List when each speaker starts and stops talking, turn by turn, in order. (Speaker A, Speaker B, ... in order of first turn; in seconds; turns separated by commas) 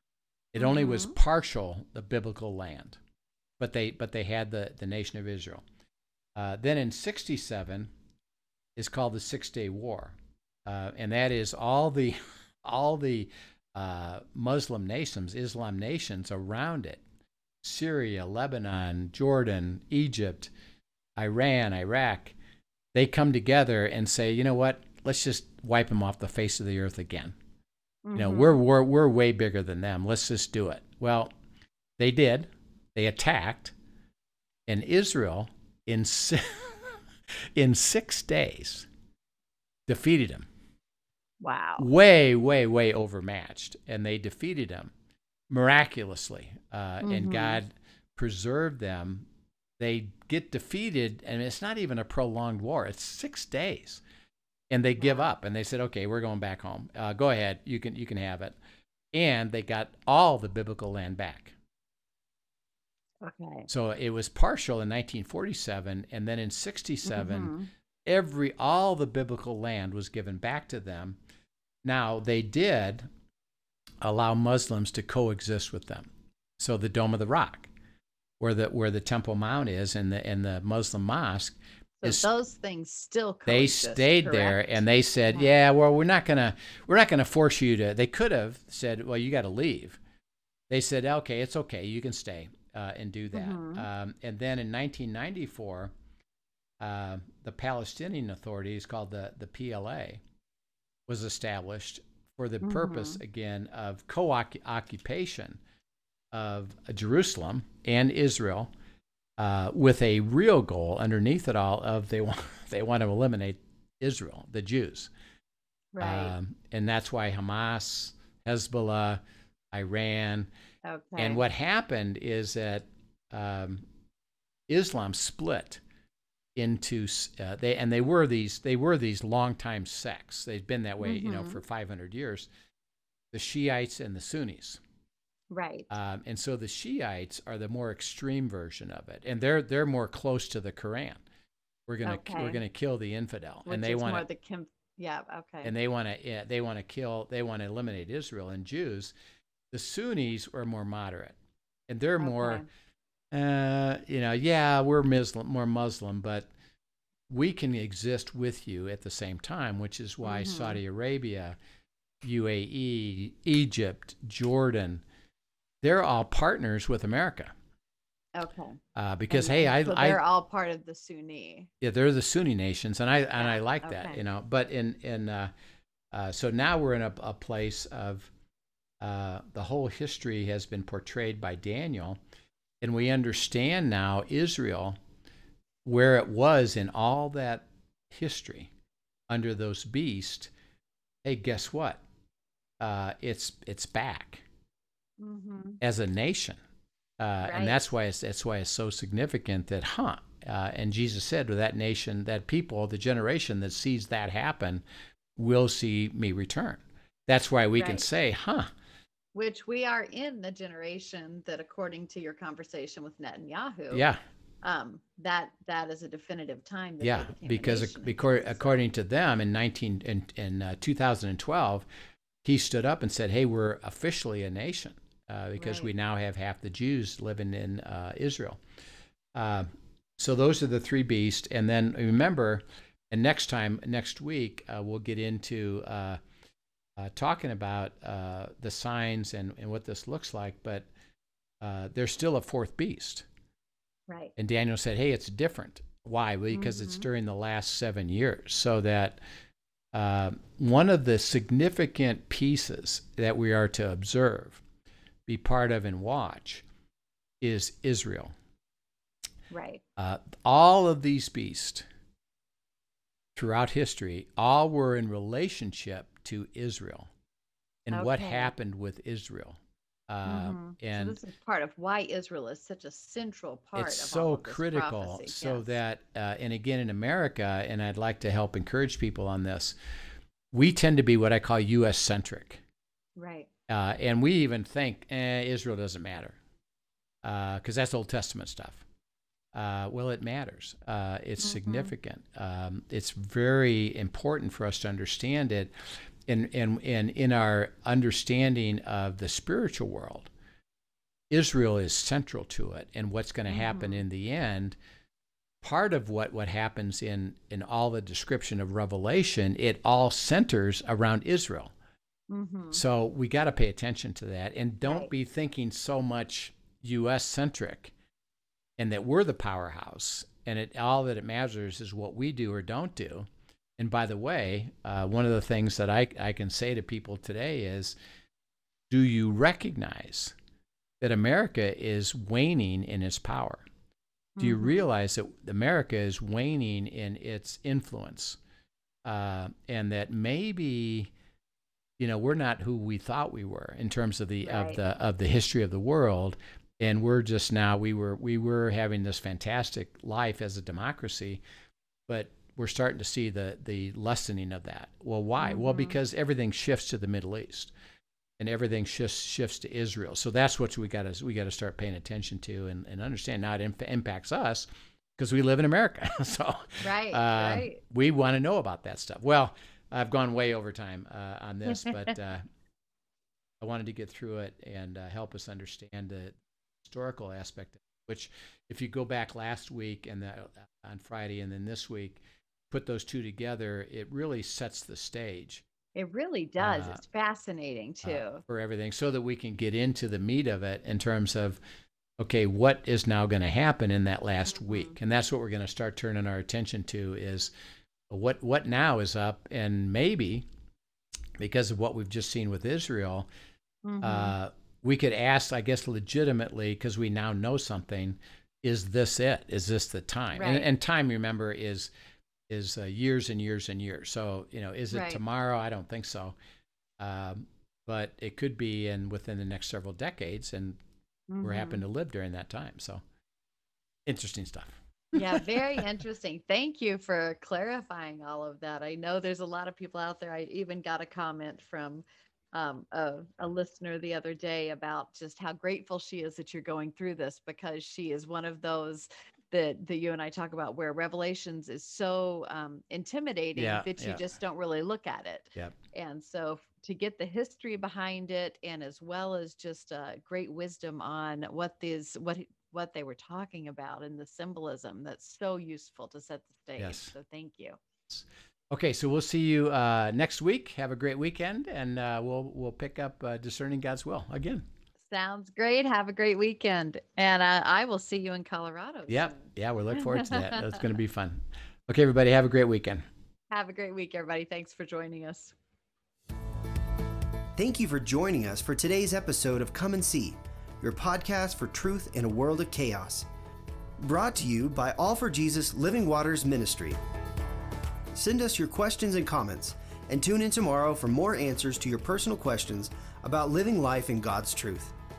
Speaker A: 0.5-3.0, Speaker B: 0.6-1.1, Speaker A: 3.6-5.6, Speaker A: 6.3-7.9, Speaker A: 8.8-17.0, Speaker A: 17.6-20.5, Speaker A: 21.2-22.3, Speaker A: 22.9-27.4, Speaker B: 28.0-28.6, Speaker A: 28.1-31.3, Speaker A: 32.0-33.7, Speaker A: 34.7-36.9, Speaker A: 37.5-38.9, Speaker A: 39.9-40.5, Speaker B: 41.4-41.9, Speaker A: 41.8-44.9, Speaker A: 45.5-49.3, Speaker B: 47.0-47.6, Speaker A: 49.8-54.0, Speaker A: 54.7-58.5, Speaker B: 55.0-55.2, Speaker A: 59.1-61.5, Speaker B: 63.2-63.7, Speaker A: 63.7-67.5, Speaker B: 67.1-67.7, Speaker A: 68.1-71.2, Speaker A: 71.8-73.1, Speaker A: 74.0-77.7, Speaker A: 78.4-82.3, Speaker B: 82.0-85.5, Speaker A: 83.5-90.0, Speaker A: 90.7-95.9, Speaker B: 93.3-93.8, Speaker A: 96.8-100.2, Speaker A: 101.1-105.6, Speaker B: 102.6-103.2, Speaker A: 106.3-108.7, Speaker A: 109.4-115.1, Speaker B: 115.9-116.3, Speaker A: 116.0-119.2, Speaker A: 119.7-120.5, Speaker B: 120.8-121.4, Speaker A: 121.2-123.8, Speaker A: 124.7-125.8, Speaker A: 126.5-132.5, Speaker B: 131.0-131.6, Speaker A: 133.3-134.8, Speaker B: 135.5-135.9, Speaker A: 135.9-141.2, Speaker A: 141.9-144.2, Speaker B: 142.0-142.6, Speaker B: 143.7-145.7, Speaker A: 145.6-149.1, Speaker A: 149.7-151.3, Speaker A: 151.9-152.6, Speaker B: 152.2-152.6, Speaker A: 153.3-156.5, Speaker A: 157.3-161.6, Speaker B: 160.2-160.8, Speaker A: 162.2-165.0, Speaker A: 165.8-167.5, Speaker B: 168.3-168.8, Speaker A: 168.9-170.2, Speaker B: 169.3-171.7, Speaker A: 171.8-175.5, Speaker B: 173.4-174.2, Speaker A: 176.1-178.3, Speaker A: 179.0-182.2, Speaker A: 182.8-185.0, Speaker A: 185.8-188.7, Speaker A: 189.3-190.5, Speaker A: 191.2-192.0, Speaker A: 192.8-194.4, Speaker B: 195.2-195.8, Speaker A: 195.8-196.6, Speaker A: 197.2-204.8, Speaker B: 197.4-197.8, Speaker A: 205.4-208.7, Speaker B: 207.8-208.0, Speaker B: 209.3-214.1, Speaker A: 213.9-214.2, Speaker B: 214.6-218.8, Speaker A: 217.0-221.8, Speaker A: 222.4-228.6, Speaker B: 225.6-225.9, Speaker A: 229.3-236.2, Speaker A: 237.0-240.9, Speaker A: 241.6-243.2, Speaker B: 244.1-244.3, Speaker A: 244.4-249.2, Speaker B: 246.5-247.1, Speaker A: 249.9-254.6, Speaker A: 255.3-256.6, Speaker A: 257.4-258.3, Speaker B: 259.5-259.8, Speaker A: 260.0-261.8, Speaker A: 263.4-267.1, Speaker A: 267.9-269.6, Speaker B: 267.9-268.5, Speaker A: 270.1-271.2, Speaker B: 270.2-275.7, Speaker A: 273.8-279.8, Speaker A: 280.5-282.6, Speaker B: 283.2-283.5, Speaker A: 283.7-286.4, Speaker A: 287.2-288.8, Speaker A: 289.5-295.7, Speaker B: 291.4-291.9, Speaker A: 296.3-300.3, Speaker A: 301.3-304.8, Speaker B: 303.5-304.0, Speaker A: 305.6-311.7, Speaker B: 312.3-312.8, Speaker A: 312.7-317.9, Speaker B: 314.8-315.1, Speaker A: 318.8-327.9, Speaker A: 328.9-330.3, Speaker A: 331.0-333.6, Speaker B: 334.4-334.8, Speaker A: 334.4-338.4, Speaker A: 339.0-341.1, Speaker A: 342.0-351.4, Speaker B: 344.4-344.8, Speaker A: 352.1-357.7, Speaker B: 355.4-356.0, Speaker A: 358.4-372.4, Speaker B: 366.8-367.8, Speaker B: 371.7-372.1, Speaker A: 373.6-385.6, Speaker B: 385.9-388.4, Speaker A: 386.6-387.0, Speaker A: 388.0-391.6, Speaker A: 392.2-397.5, Speaker B: 394.5-394.9, Speaker A: 398.1-400.4, Speaker A: 401.4-403.3, Speaker B: 403.8-404.3, Speaker A: 404.0-411.9, Speaker B: 410.4-410.6, Speaker A: 412.5-416.3, Speaker B: 414.9-415.2, Speaker A: 417.0-420.8, Speaker B: 421.3-421.8, Speaker A: 421.4-423.0, Speaker A: 424.1-425.8, Speaker B: 425.1-457.8, Speaker A: 443.6-444.2, Speaker A: 456.8-457.1, Speaker A: 458.1-464.6, Speaker B: 465.1-470.8, Speaker A: 469.1-473.1, Speaker B: 473.5-475.5, Speaker C: 477.6-483.3, Speaker C: 484.0-487.0, Speaker C: 488.1-494.9